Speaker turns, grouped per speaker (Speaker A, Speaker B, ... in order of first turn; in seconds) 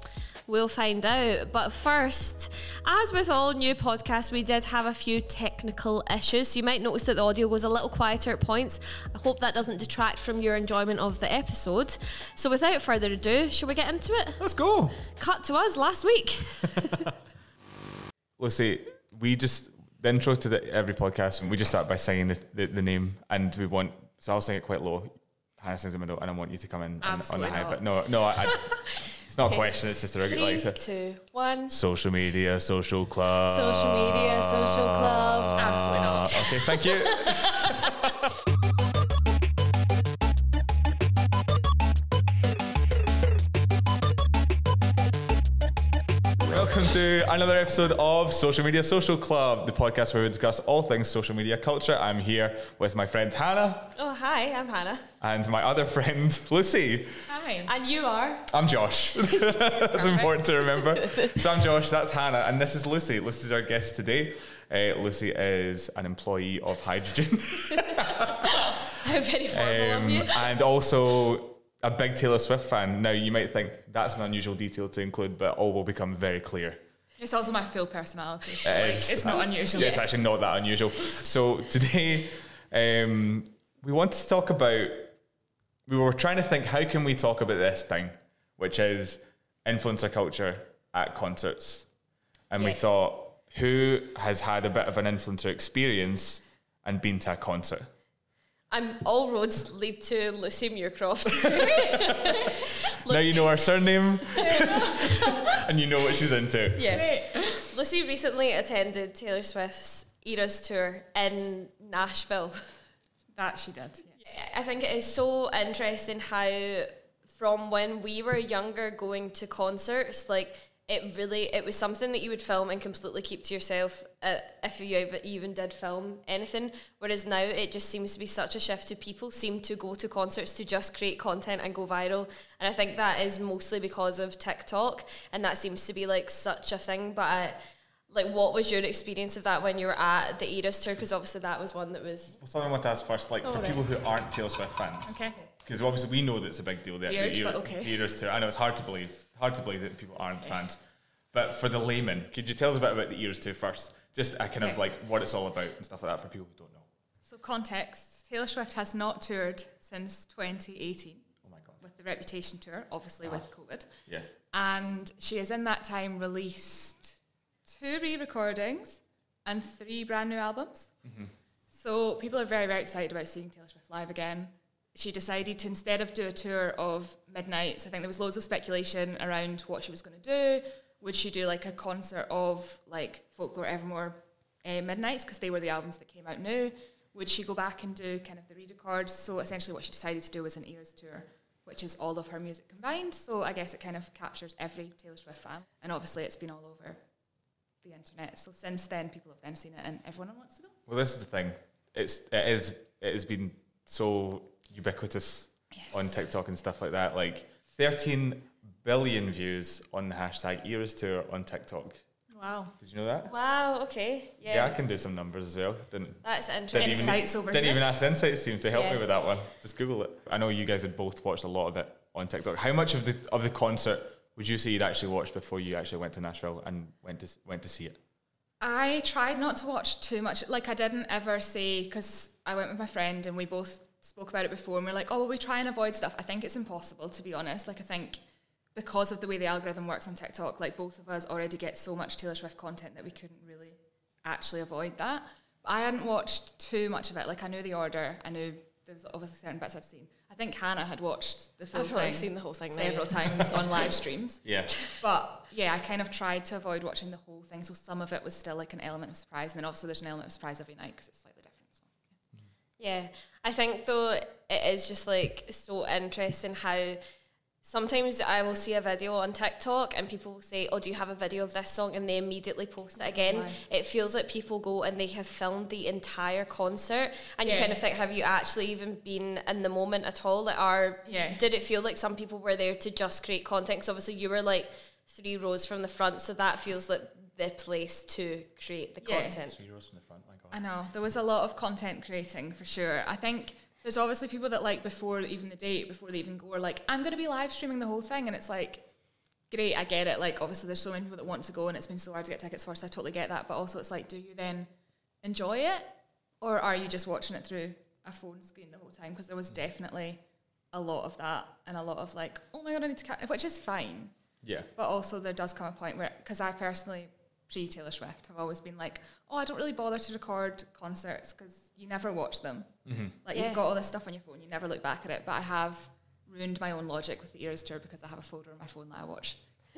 Speaker A: 0.5-14.4, 15.1-17.1, 29.4-31.7, 33.4-35.7, 36.3-37.9, 53.9-55.0, 57.6-58.5, 59.3-61.4, 67.9-70.5, 98.7-105.5, 106.7-112.6, 114.2-137.6, 138.1-142.4, 143.4-143.8, 213.2-214.8, 216.2-217.2, 218.7-219.1, 251.7-253.8, 262.8-267.0, 267.6-289.6, 323.3-323.6
Speaker B: 14.4-15.0, 16.6-17.0, 18.4-28.6, 29.2-30.8, 31.7-38.3, 46.5-53.9, 55.2-57.3, 58.5-68.8, 69.5-76.8, 78.6-85.1, 85.9-91.9, 92.5-97.9, 103.0-107.0, 142.3-150.8, 151.3-156.9, 161.4-161.8, 171.0-171.3, 200.9-212.0, 212.8-213.3, 214.5-228.0, 254.4-254.7, 289.4-290.6, 314.4-314.7, 322.9-323.2
Speaker C: 27.0-28.8, 35.5-36.9, 57.3-57.7, 59.9-60.4, 77.2-80.0, 104.5-105.0, 106.9-107.7, 113.3-114.2, 145.1-145.5, 147.1-148.0, 157.2-161.2, 161.8-163.9, 164.5-170.9, 171.7-197.0, 197.8-200.7, 205.7-206.2, 212.3-212.7, 216.7-217.8, 228.6-238.2, 238.7-261.9, 273.0-273.6, 277.4-277.8, 281.0-281.4, 289.0-289.4, 290.5-298.9, 299.5-304.7, 305.2-314.1, 314.8-322.7, 323.2-329.4